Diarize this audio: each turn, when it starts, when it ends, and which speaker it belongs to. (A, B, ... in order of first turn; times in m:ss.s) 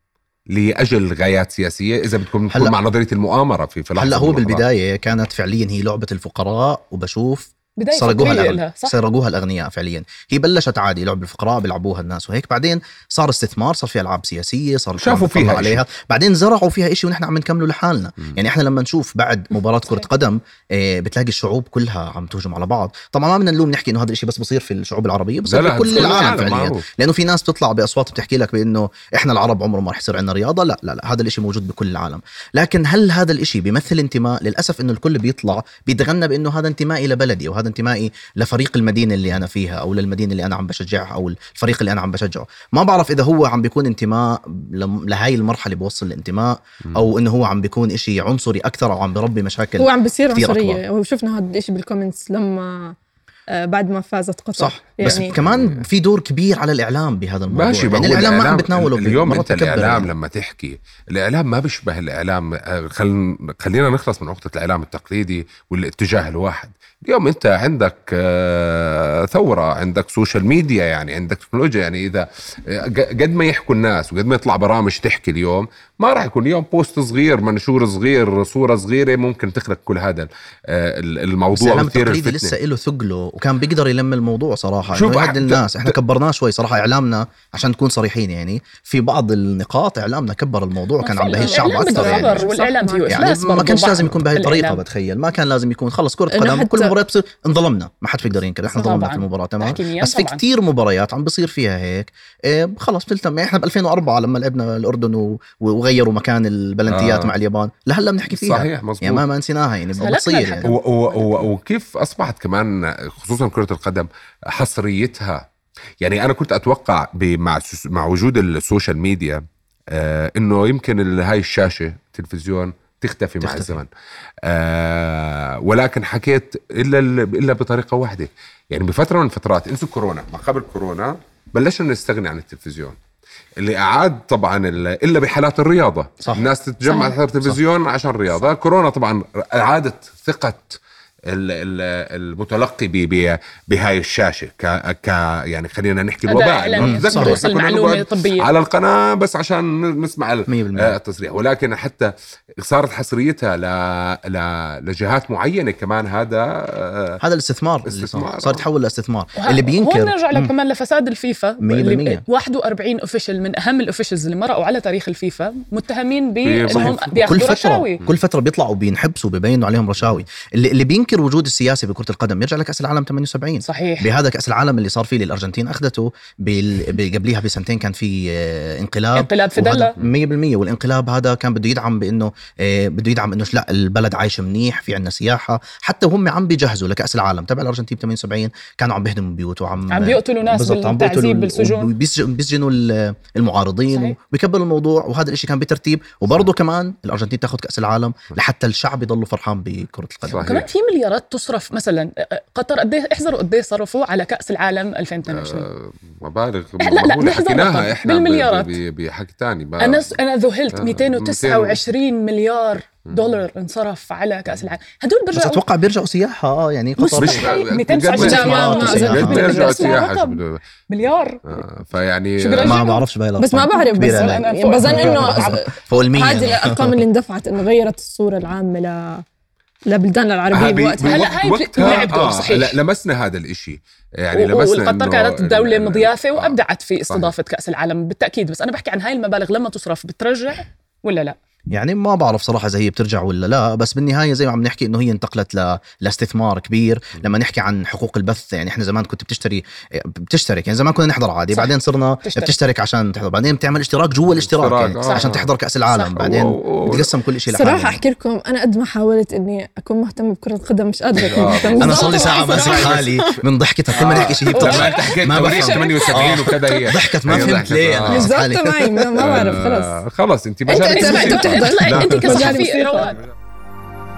0:00.5-0:04.6 A
0:04.0-0:50.8 B
0:07.8-0:09.0 C
0:15.0-0:15.8 A
0:25.5-0:26.9 A
0:49.8-0:53.0 D
0:53.6-0:55.4 D
0:54.6-1:00.1 B
0:55.0-0:55.8 A
0:57.5-1:22.5 A
1:21.6-1:32.5 B
1:24.9-1:26.0 A
1:31.0-1:34.8 C
1:31.4-1:33.2 D
1:33.1-1:50.7 B
1:36.3-1:36.9 D
1:38.7-1:39.0 D
1:38.8-1:40.4 C
1:46.9-1:47.3 A
1:48.3-1:49.2 A
1:50.0-1:51.4 C
1:50.6-1:55.4 A
1:56.0-1:59.4 A
1:59.9-2:03.9 A
2:03.4-2:03.8 B
2:04.5-2:13.0 A
2:13.6-2:20.8 A
2:16.8-2:17.2 C
2:21.3-2:37.2 A
2:26.3-2:28.5 C
2:26.8-2:27.4 B
2:30.5-2:31.0 B
2:37.2-2:40.5 B
2:37.9-2:38.6 A
2:39.4-2:48.0 C
2:41.6-2:42.2 B
2:46.4-2:47.0 A
2:46.7-3:20.6 B
2:53.6-2:54.1 C
2:59.2-2:59.9 C
3:09.9-3:11.9 C
3:13.9-3:14.2 C
3:20.3-3:20.6 A
3:20.4-3:25.7 C
3:25.3-3:30.2 A
3:26.8-3:28.8 C
3:29.8-3:35.6 C
3:30.8-3:31.8 A
3:33.1-3:33.4 A
3:35.3-3:37.5 B
3:37.0-3:41.6 C
3:37.2-3:40.6 A
3:38.2-3:39.4 B
3:38.2-3:39.8 D
3:41.5-3:42.8 A
3:42.4-3:43.0 C
3:42.6-3:47.0 B
3:43.4-3:49.2 D
3:43.6-3:45.6 C
3:49.9-3:51.6 D
3:50.5-3:57.3 A
3:51.0-3:52.8 C
3:54.3-4:01.4 C
4:01.7-4:18.0 B
4:12.2-4:12.5 C
4:14.4-4:15.5 A
4:15.0-4:15.4 C
4:15.9-4:16.2 C
4:16.2-4:17.1 A
4:17.5-4:23.4 D
4:21.1-4:23.2 A
4:21.7-4:29.3 B
4:23.9-4:28.3 A
4:24.5-4:26.9 C
4:28.1-4:30.0 D
4:29.2-4:32.5 A
4:30.7-4:33.2 D
4:30.7-4:33.2 C